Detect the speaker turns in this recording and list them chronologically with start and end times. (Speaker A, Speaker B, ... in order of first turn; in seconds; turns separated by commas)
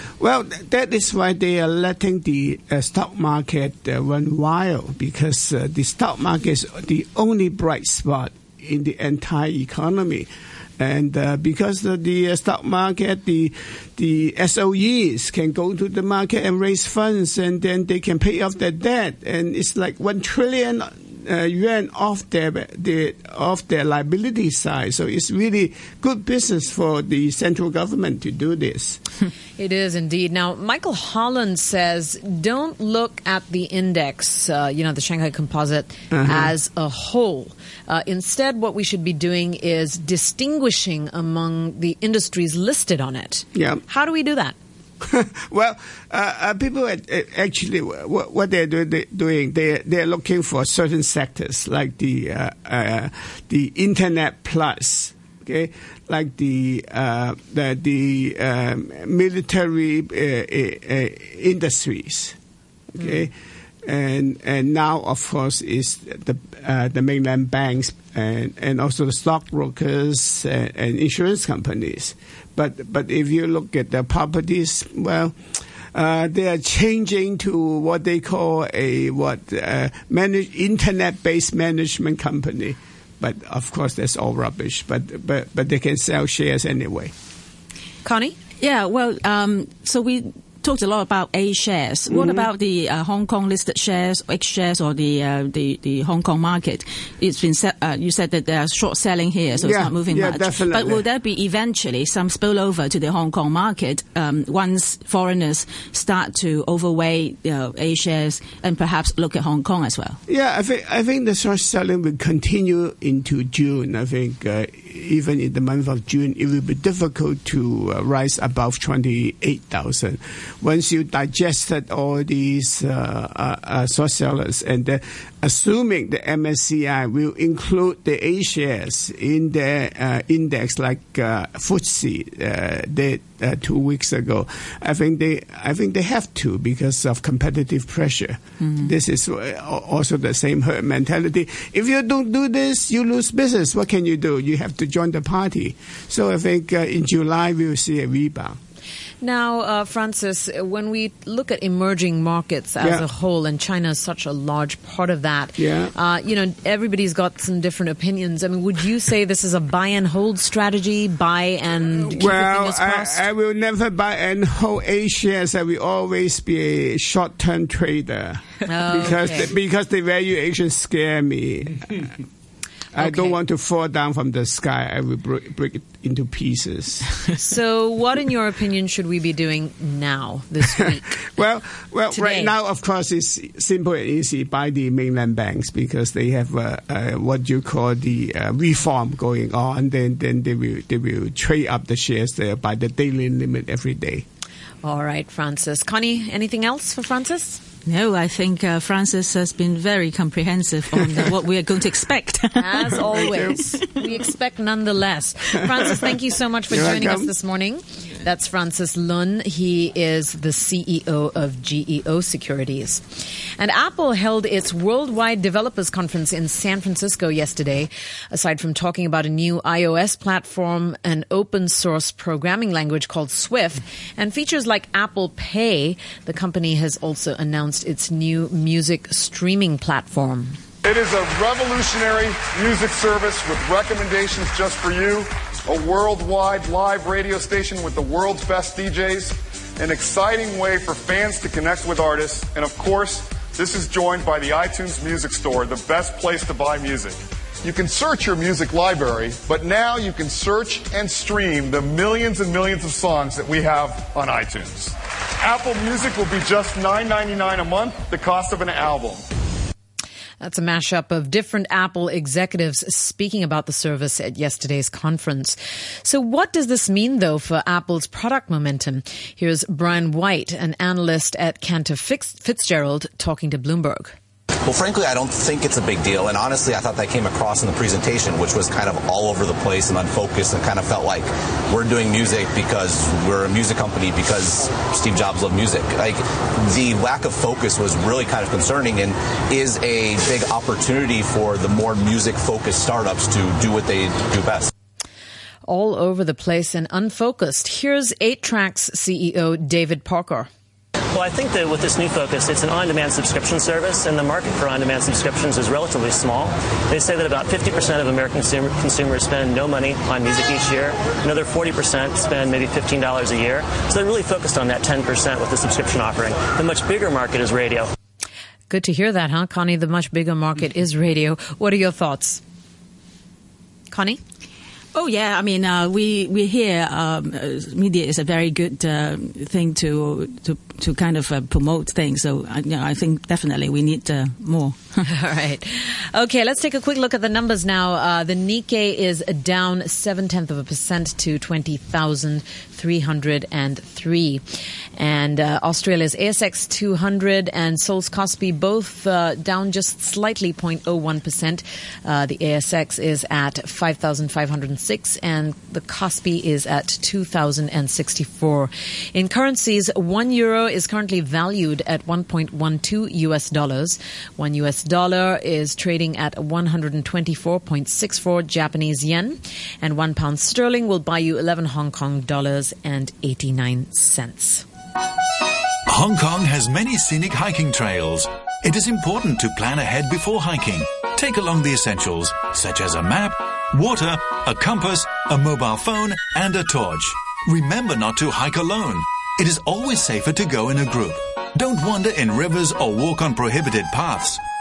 Speaker A: 0.2-29.0, Speaker B: 29.6-44.5, Speaker A: 36.1-36.5, Speaker A: 43.5-43.8, Speaker A: 45.0-62.4, Speaker A: 62.9-63.3, Speaker A: 63.8-75.3, Speaker A: 75.9-87.1, Speaker B: 88.0-88.4, Speaker C: 88.6-110.2, Speaker A: 92.1-92.5, Speaker A: 99.5-101.0, Speaker A: 110.3-148.6, Speaker C: 138.6-138.9, Speaker B: 149.2-163.2, Speaker A: 155.6-155.9, Speaker A: 162.1-172.1, Speaker B: 168.7-169.5, Speaker A: 172.9-177.1, Speaker B: 173.0-173.3, Speaker B: 177.4-181.2, Speaker A: 180.7-194.2, Speaker B: 182.1-182.5, Speaker B: 194.8-197.6, Speaker C: 197.8-203.0, Speaker B: 202.6-230.6, Speaker A: 203.0-203.8, Speaker A: 205.7-206.1, Speaker A: 206.7-207.3, Speaker D: 230.8-259.2, Speaker B: 260.4-274.1, Speaker E: 274.6-294.7, Speaker B: 295.6-300.5, Speaker F: 301.1-317.9, Speaker B: 318.7-322.4, Speaker B: 323.9-324.2, Speaker C: 324.9-335.0, Speaker B: 335.1-374.6, Speaker G: 375.9-394.4